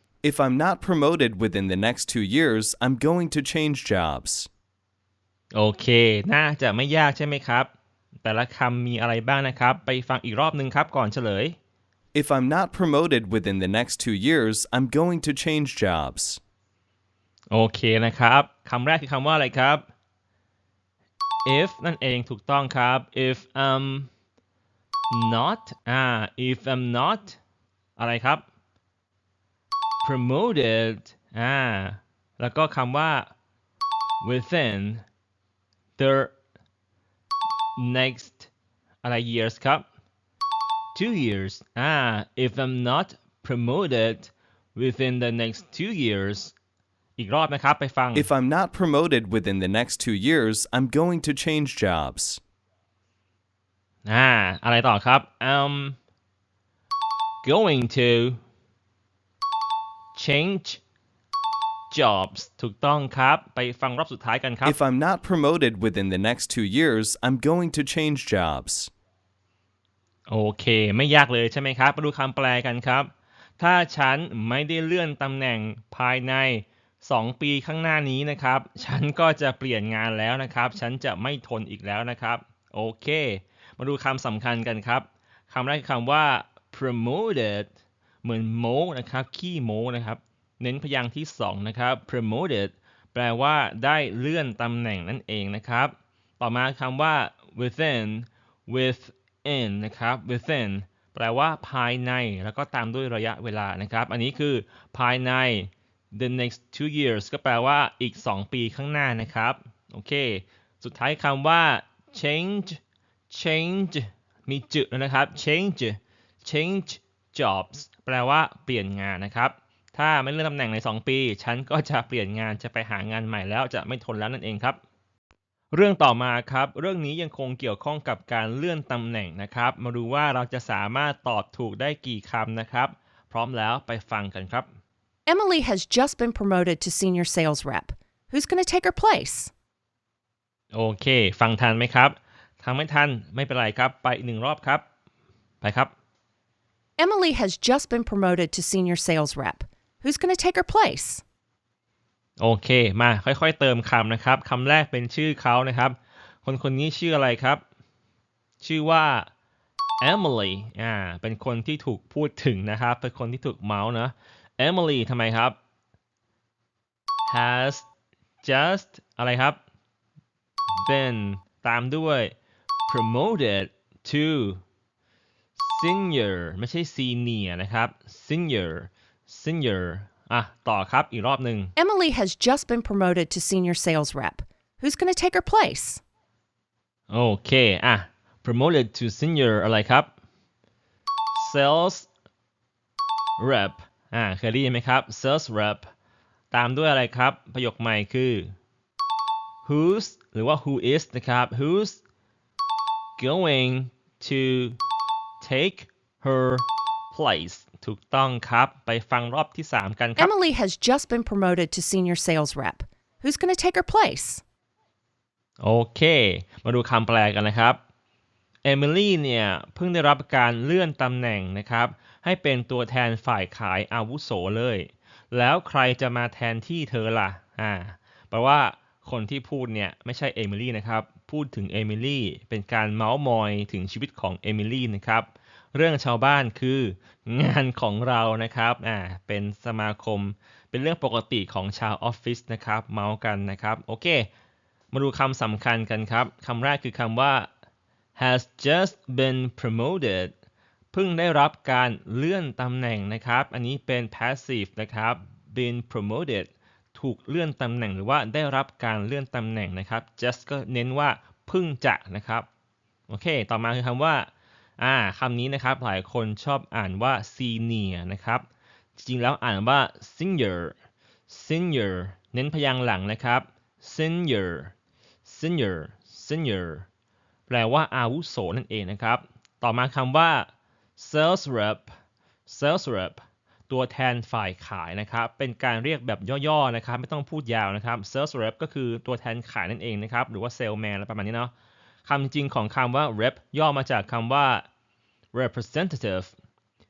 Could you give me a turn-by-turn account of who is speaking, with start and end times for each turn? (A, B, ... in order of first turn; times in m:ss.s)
0:00.2-0:04.5 A
0:05.5-0:07.7 B
0:08.2-0:11.6 B
0:12.1-0:16.4 A
0:17.5-0:19.9 B
0:21.5-0:24.1 B
0:25.1-0:27.4 B
0:28.0-0:28.5 B
0:30.0-0:33.3 B
0:34.2-0:35.0 B
0:36.0-0:36.4 B
0:37.8-0:38.5 B
0:39.0-0:39.9 B
0:41.0-0:46.5 B
0:47.2-0:48.3 B
0:48.1-0:52.4 A
0:54.1-0:56.0 B
0:57.4-0:58.4 B
1:00.2-1:00.8 B
1:01.9-1:04.8 B
1:04.6-1:08.9 A
1:10.3-1:27.7 B
1:28.2-2:04.8 B
2:05.7-2:14.7 B
2:15.3-2:19.5 C
2:20.7-2:24.8 B
2:25.6-2:25.9 B
2:27.0-2:31.2 C
2:32.4-2:37.6 B
2:38.6-2:39.3 B
2:40.0-2:45.6 B
2:47.3-2:47.9 B
2:48.4-2:49.6 B
2:50.8-2:52.4 B
2:52.9-2:54.6 B
2:55.6-3:01.7 B
3:01.8-3:06.0 C
3:07.1-3:10.1 B
3:11.4-3:12.1 B
3:13.4-3:15.9 B
3:16.5-3:18.5 B
3:19.6-3:22.0 B
3:23.2-3:24.8 B
3:25.4-3:30.3 B
3:30.2-3:34.4 C
3:35.6-3:37.8 B
3:38.6-4:04.3 B
4:04.9-4:07.5 B
4:08.2-4:10.3 B
4:10.9-4:22.5 B
4:23.1-4:28.5 B
4:29.0-4:30.8 B
4:31.3-4:34.7 B
4:35.2-4:36.9 B
4:37.5-4:41.9 B
4:42.5-4:51.5 B
4:52.1-4:54.6 B
4:55.3-4:56.3 B